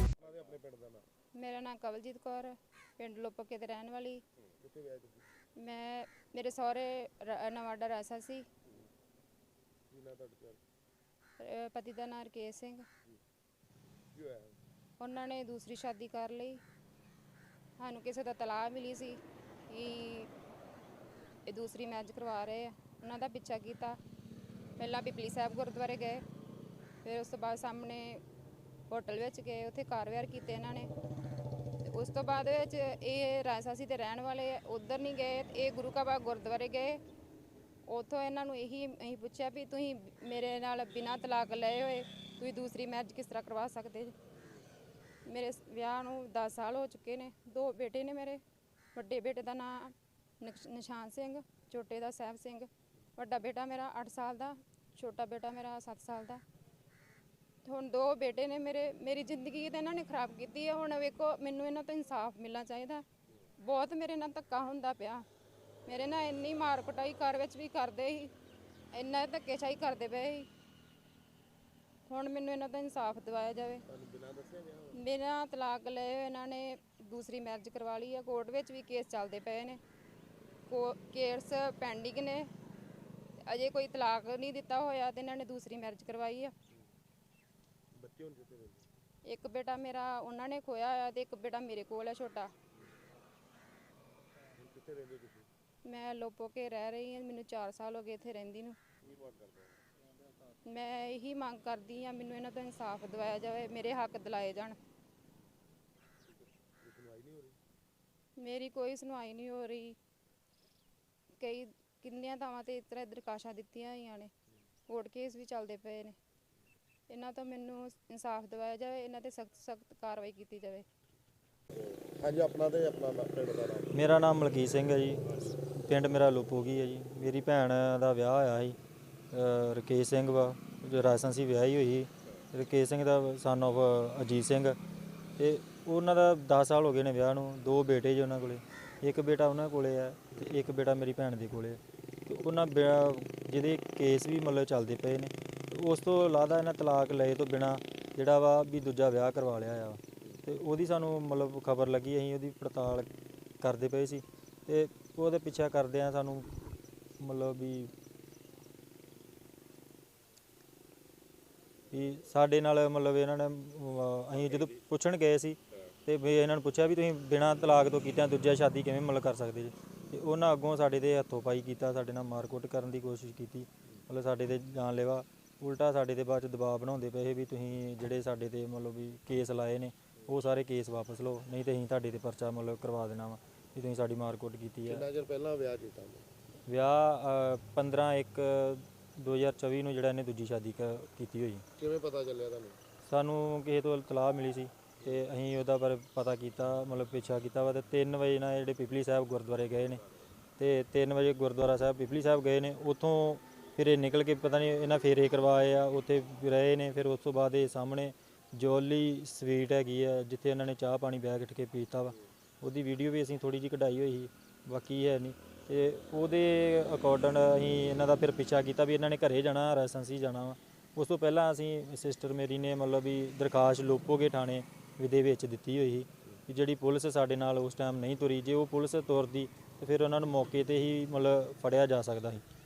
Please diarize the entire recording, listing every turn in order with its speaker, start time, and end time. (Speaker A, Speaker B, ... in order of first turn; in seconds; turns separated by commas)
Speaker A: 0.2-1.1, Speaker B: 1.3-4.2, Speaker A: 4.6-5.3, Speaker B: 5.6-8.4, Speaker A: 9.9-10.6, Speaker B: 11.4-12.8, Speaker A: 14.1-14.6, Speaker B: 15.0-16.6, Speaker B: 17.8-20.3, Speaker B: 21.4-24.0, Speaker B: 24.8-26.2, Speaker B: 27.0-28.2, Speaker B: 28.9-30.9, Speaker B: 31.8-37.0, Speaker B: 37.9-44.1, Speaker B: 45.2-48.4, Speaker B: 48.9-56.4, Speaker B: 57.6-63.0, Speaker B: 63.6-65.2, Speaker B: 65.8-68.3, Speaker B: 68.9-70.5, Speaker B: 72.1-73.8, Speaker A: 73.9-75.0, Speaker B: 74.9-79.8, Speaker B: 80.7-82.5, Speaker B: 83.5-86.5, Speaker A: 87.9-88.9, Speaker B: 89.2-92.5, Speaker A: 94.5-95.5, Speaker B: 95.8-98.8, Speaker A: 99.0-99.4, Speaker B: 100.7-104.8, Speaker A: 106.8-107.6, Speaker B: 108.4-110.0, Speaker B: 111.4-114.3, Speaker B: 114.9-116.2, Speaker B: 117.1-120.8, Speaker A: 121.7-123.9, Speaker C: 123.9-128.8, Speaker C: 129.3-134.8, Speaker C: 135.4-153.1, Speaker C: 153.6-156.5, Speaker C: 157.2-157.9, Speaker C: 161.9-185.1, Speaker A: 184.9-186.3, Speaker C: 186.7-191.6, Speaker A: 191.8-192.8, Speaker C: 193.0-200.0, Speaker C: 200.6-232.4